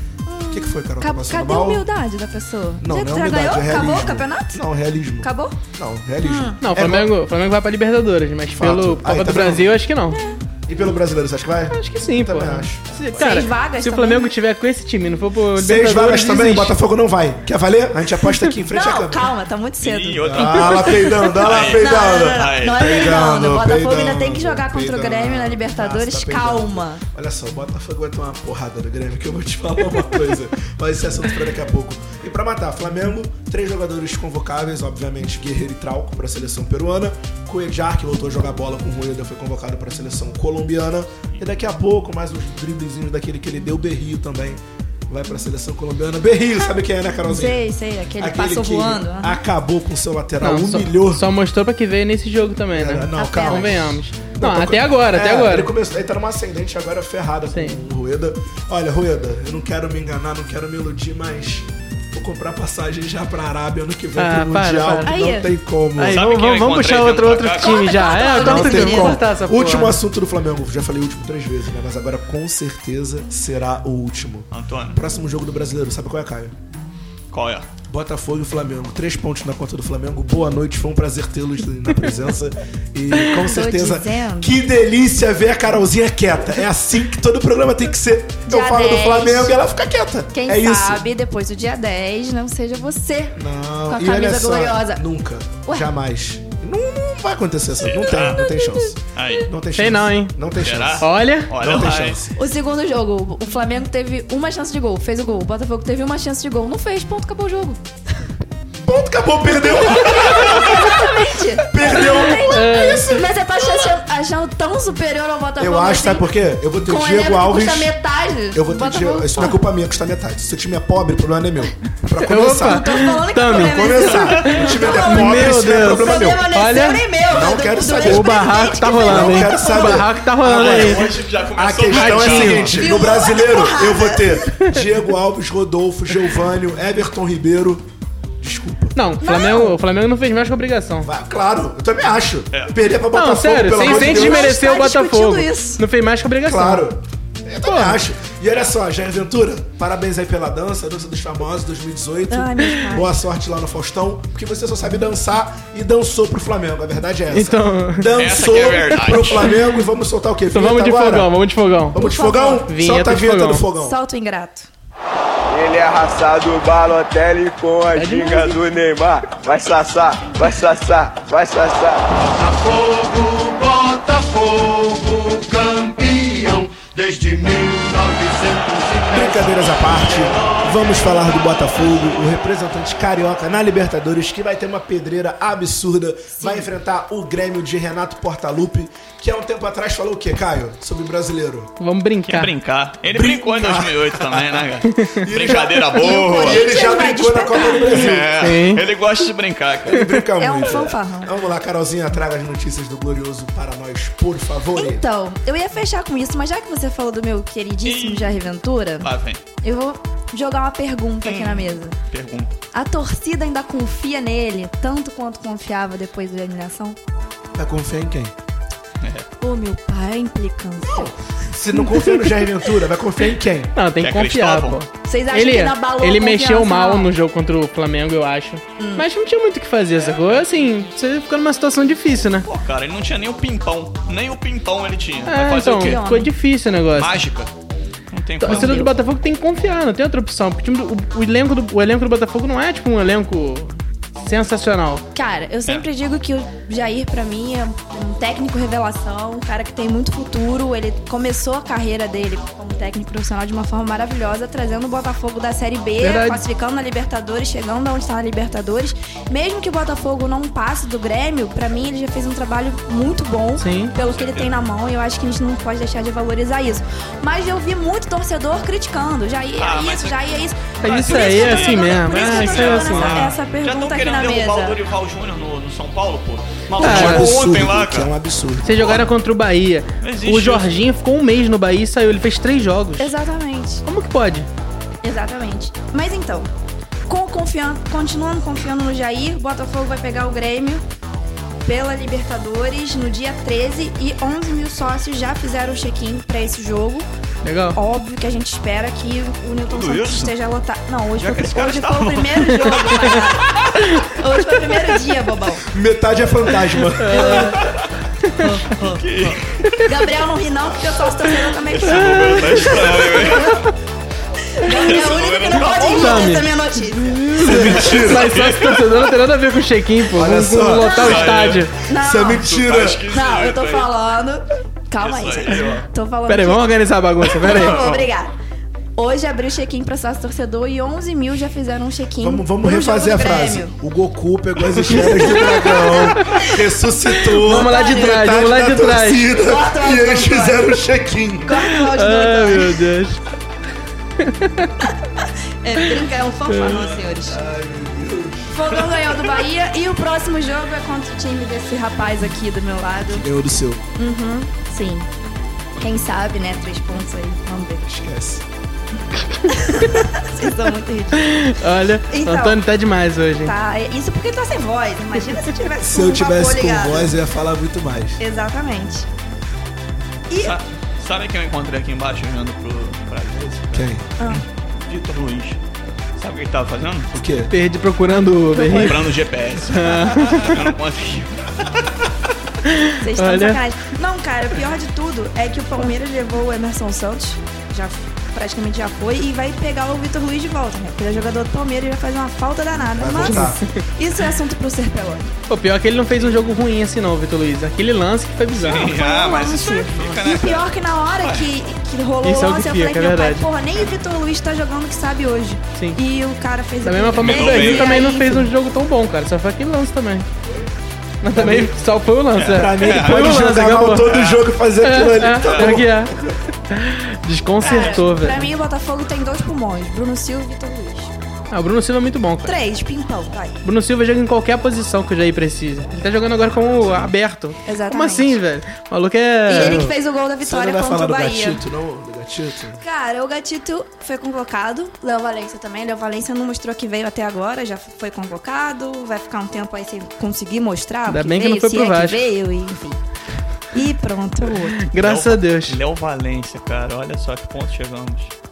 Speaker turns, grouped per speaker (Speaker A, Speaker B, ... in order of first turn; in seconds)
Speaker A: 0.2-4.6, 5.2-5.6, 6.2-6.6, 10.1-10.4, 13.2-14.3, 18.7-27.0, 47.2-49.4, 65.0-65.5, 67.5-69.2, 83.4-84.6, 88.5-89.5, 90.3-93.4, 93.9-95.0, 98.6-98.8, 102.3-107.8, 110.0-116.3, 116.8-119.5, 122.4-130.1, 132.7-134.5, 139.2-139.8, 143.8-145.8, 152.3-153.2, 161.9-162.7, 163.8-164.7, 186.4-186.7, 195.9-197.9, 200.4-201.3, 204.8-209.1, 209.6-211.9, 212.7-217.0, 219.4-221.1, 225.0-227.1, 228.8-229.0, 235.6-236.3, 238.4-238.9, 245.1-274.8, 283.0-283.8, 285.0-286.5, 287.1-290.8, 291.6-297.1, 297.7-305.6, 307.1-307.7, 308.4-309.0, 309.8-313.6, 314.5-317.3, 320.8-321.3, 321.9-322.5, 323.1-328.3, 328.9-333.7, 334.9-335.9, 337.5-338.3, 339.3-340.7, 341.4-342.8, 344.8-347.4, 348.5-353.2, 354.0-355.1, 355.8-357.8, 359.5-361.5, 362.1-362.6, 363.4-367.1, 368.2-369.1, 370.3-370.6, 374.2-374.4, 378.5-379.1, 383.0-395.3, 398.8-408.5, 417.6-421.1, 422.4-423.6, 427.6-428.4, 429.5-431.6, 432.8-443.0, 443.7-444.8
Speaker B: 0.5-1.8, 2.8-7.1, 8.5-9.8, 10.7-12.8, 15.5-19.3, 20.2-47.7, 48.2-51.2, 52.7-66.2, 68.3-76.5, 77.9-91.0, 93.3-102.4, 108.8-111.1, 111.7-113.9, 115.6-117.9, 118.5-126.5, 127.2-137.8, 138.4-139.0, 141.0-144.6, 146.4-161.3, 161.9-164.0, 179.1-191.7, 193.1-194.7, 195.2-198.4, 199.8-205.0, 217.5-218.3, 220.8-223.7, 276.8-279.0, 305.7-307.4, 317.4-318.5, 320.1-323.0, 332.2-341.6, 347.2-349.1, 353.1-353.8, 357.9-358.4, 365.8-368.2, 373.7-374.0, 377.1-377.5, 392.9-393.6, 411.3-411.7, 412.4-416.4, 429.5-432.8
Speaker C: 6.6-10.2, 11.7-16.7, 50.4-55.7, 57.5-57.8, 64.2-65.1, 66.0-70.0, 99.8-100.3, 101.0-101.5, 112.5-113.1, 122.2-127.0, 128.0-131.0, 131.9-132.8, 138.9-141.1, 143.1-146.9, 147.6-148.0, 157.3-158.1, 160.5-162.0, 162.7-163.6, 167.9-168.6, 191.8-192.5, 194.9-195.2, 198.2-198.8, 223.7-232.5, 235.2-237.2, 238.4-245.0, 256.0-256.4, 263.6-263.9, 270.8-273.4, 276.8-277.3, 278.6-283.1, 283.8-284.5, 297.4-297.8, 307.0-307.6, 308.2-308.5, 311.9-312.8, 315.9-316.5, 317.1-321.7, 326.3-327.9, 334.9-335.4, 336.1-336.5, 337.4-339.2, 341.5-343.2, 344.2-344.7, 346.5-346.8, 359.4-359.8, 361.1-363.5, 377.5-379.1, 379.6-380.6, 382.6-383.6, 393.2-393.6, 395.5-399.0, 402.2-403.5, 406.8-410.2, 411.2-414.1, 414.8-416.1, 416.7-418.4, 421.5-422.5, 423.6-429.8, 441.1-442.2, 444.8-445.8
Speaker D: 12.9-13.4, 19.8-23.1, 66.1-68.2, 74.5-75.0, 77.3-77.7, 97.8-98.5, 99.1-99.5, 100.6-102.2, 130.5-132.9, 158.2-159.5, 192.2-196.7, 197.8-200.2, 207.8-208.4, 209.0-209.4, 211.2-212.6, 219.0-219.3, 224.0-224.8, 230.2-230.5, 232.4-236.0, 236.9-237.5, 238.1-239.0, 264.0-264.5, 269.6-278.1, 278.8-279.0, 280.0-280.7, 299.6-300.3, 301.2-303.5, 308.7-309.7, 311.6-313.6, 314.7-316.5, 317.4-319.1, 320.8-321.7, 322.3-323.9, 325.0-325.9, 327.5-328.1, 370.4-375.6, 376.2-377.1, 378.7-382.1, 398.5-401.5, 407.2-408.1, 412.3-413.5, 414.0-414.5, 415.3-415.8, 417.6-418.1, 445.0-448.3
Speaker E: 165.5-179.4, 180.2-180.6